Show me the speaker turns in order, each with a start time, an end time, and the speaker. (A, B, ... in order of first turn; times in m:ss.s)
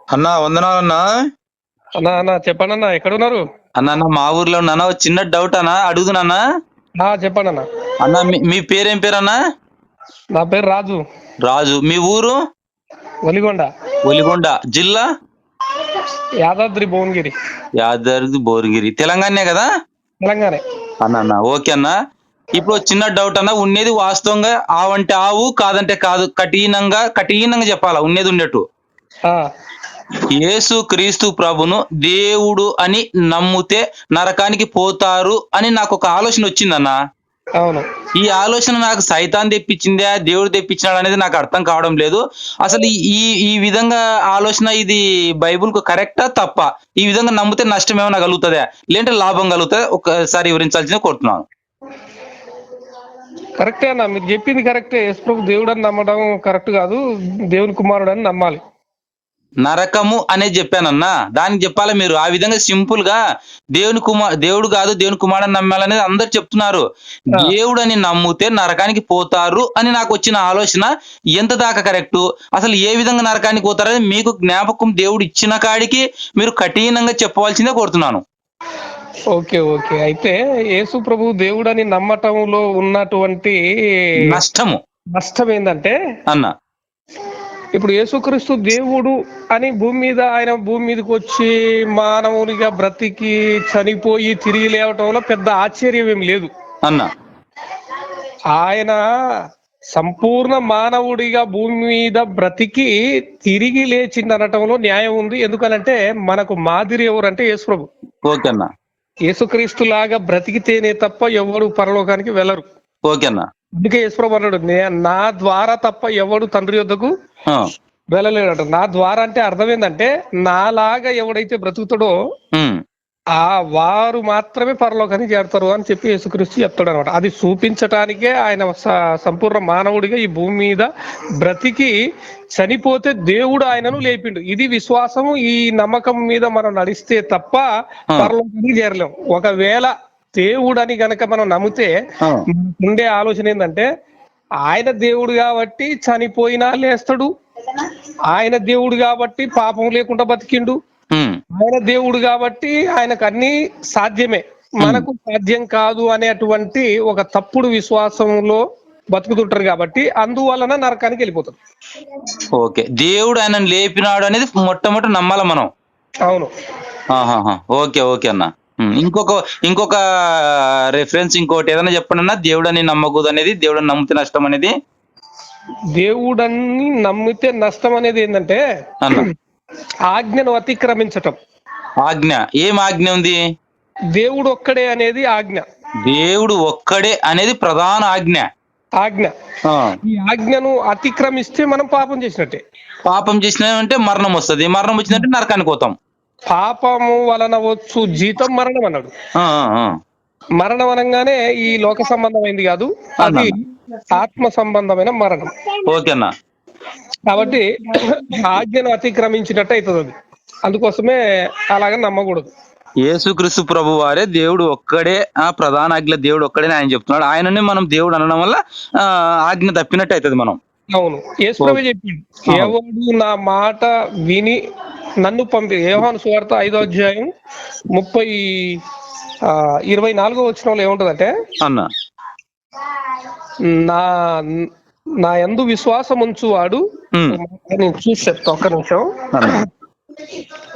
0:00.2-0:01.0 A
0:02.0-0:03.4 B
0:03.8-0:06.4 A
0:07.0-0:07.6 B
0:08.0-0:09.4 A
0:10.4-0:11.0 B
0:11.4-0:12.4 A
0:13.3-0:13.7 B
0:14.0-0:15.0 A
0:15.9-0:17.3 B
0:17.8-0:19.7 A
0:20.2-0:20.6 B
0:21.0-0:21.9 A
0:22.6-0:28.6 A
0:30.3-0:37.0 A
0:38.2-0:51.4 A
0:53.6-0:57.0 B
0:57.5-0:58.6 B
0:59.6-1:03.2 A
1:03.8-1:18.2 A
1:19.3-1:23.6 B
1:24.2-1:24.8 A
1:25.2-1:25.9 B
1:27.8-1:36.5 B
1:38.5-1:39.0 B
1:40.0-1:42.9 B
1:43.5-1:47.9 B
1:48.3-1:48.7 A
1:49.3-1:52.6 B
1:53.1-1:53.4 A
1:53.8-1:57.1 B
1:58.1-2:02.1 B
2:02.5-2:02.8 A
2:03.4-2:10.9 B
2:11.4-2:11.9 B
2:12.6-2:17.7 B
2:18.2-2:21.9 B
2:22.5-2:23.8 B
2:24.7-2:27.3 B
2:28.3-2:30.8 B
2:31.1-2:31.4 A
2:31.6-2:38.6 B
2:39.1-2:41.6 B
2:42.6-2:45.7 A
2:47.1-2:54.7 A
2:56.0-2:58.6 B
2:59.0-2:59.3 A
3:00.1-3:01.4 B
3:02.0-3:03.4 A
3:04.2-3:05.6 B
3:06.0-3:08.5 A
3:09.0-3:09.3 B
3:09.7-3:09.9 A
3:10.0-3:12.6 B
3:13.0-3:16.0 A
3:16.5-3:19.1 B
3:19.4-3:19.9 A
3:20.6-3:23.6 B
3:23.2-3:23.5 A
3:24.1-3:25.6 B
3:25.9-3:26.3 A
3:27.3-3:30.1 B
3:30.7-3:31.2 B
3:31.7-3:32.5 B
3:33.0-3:40.6 A
3:40.9-3:44.6 B
3:45.2-3:47.3 B
3:48.0-3:48.8 B
3:49.5-3:51.3 B
3:51.6-3:51.9 A
3:53.7-3:54.7 B
3:55.2-3:59.6 B
3:57.1-3:57.4 A
3:59.3-3:59.6 A